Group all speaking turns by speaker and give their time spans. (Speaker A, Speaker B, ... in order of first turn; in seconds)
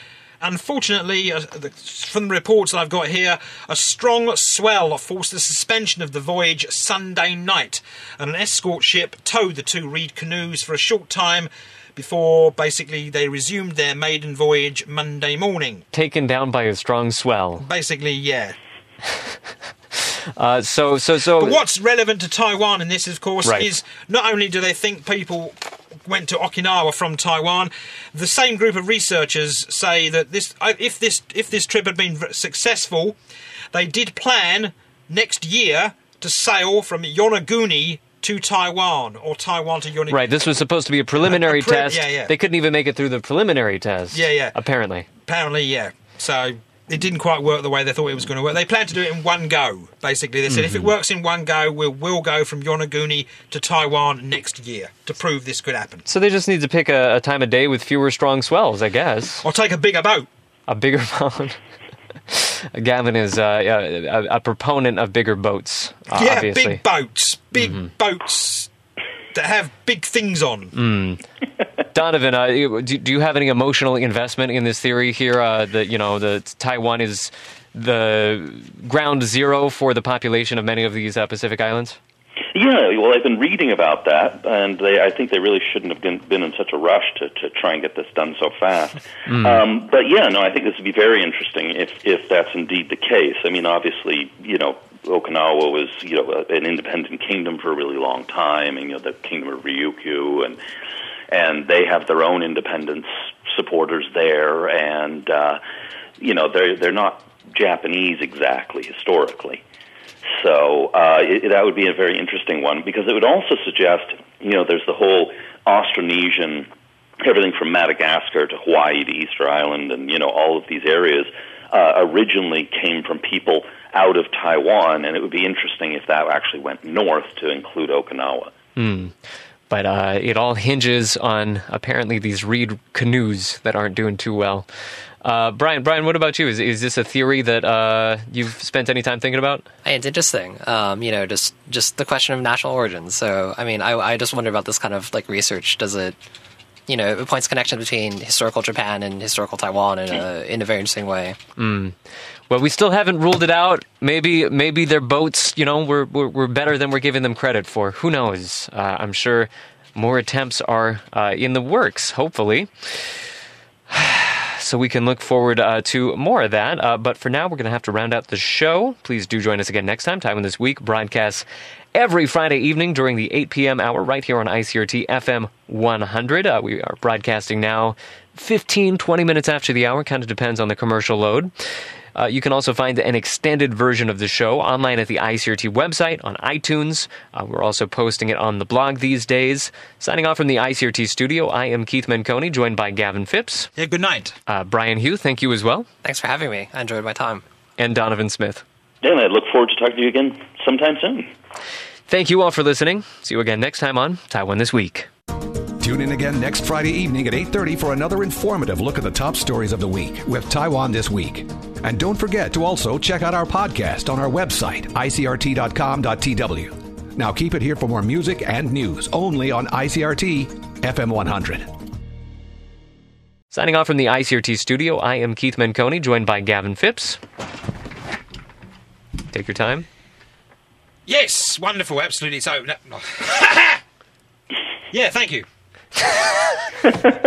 Speaker A: 0.4-15.8, 17.6-18.6, 21.4-33.2, 33.7-40.2, 41.2-42.3, 44.1-44.5, 45.2-56.0, 59.4-60.3, 66.1-68.7, 69.3-70.7, 193.8-194.3, 231.1-233.8, 234.9-235.4
Speaker B: 15.9-17.6, 19.9-21.6, 40.1-45.1, 50.5-50.9, 56.0-59.4, 60.7-61.6, 62.3-66.8, 67.6-67.9, 70.7-71.2, 71.9-82.0, 89.3-89.6, 128.8-129.1, 129.7-134.7, 135.2-139.7, 151.6-151.9, 152.5-163.2, 163.9-181.5, 182.1-193.7, 194.5-195.9, 197.8-198.6, 202.1-205.1, 223.5-227.2, 229.3-229.9
Speaker C: 82.5-100.6, 101.3-105.6, 106.2-109.6, 110.4-116.7, 117.2-128.5, 199.0-201.3
Speaker D: 139.8-146.2, 146.9-151.4, 196.0-197.4
Speaker E: 205.8-221.7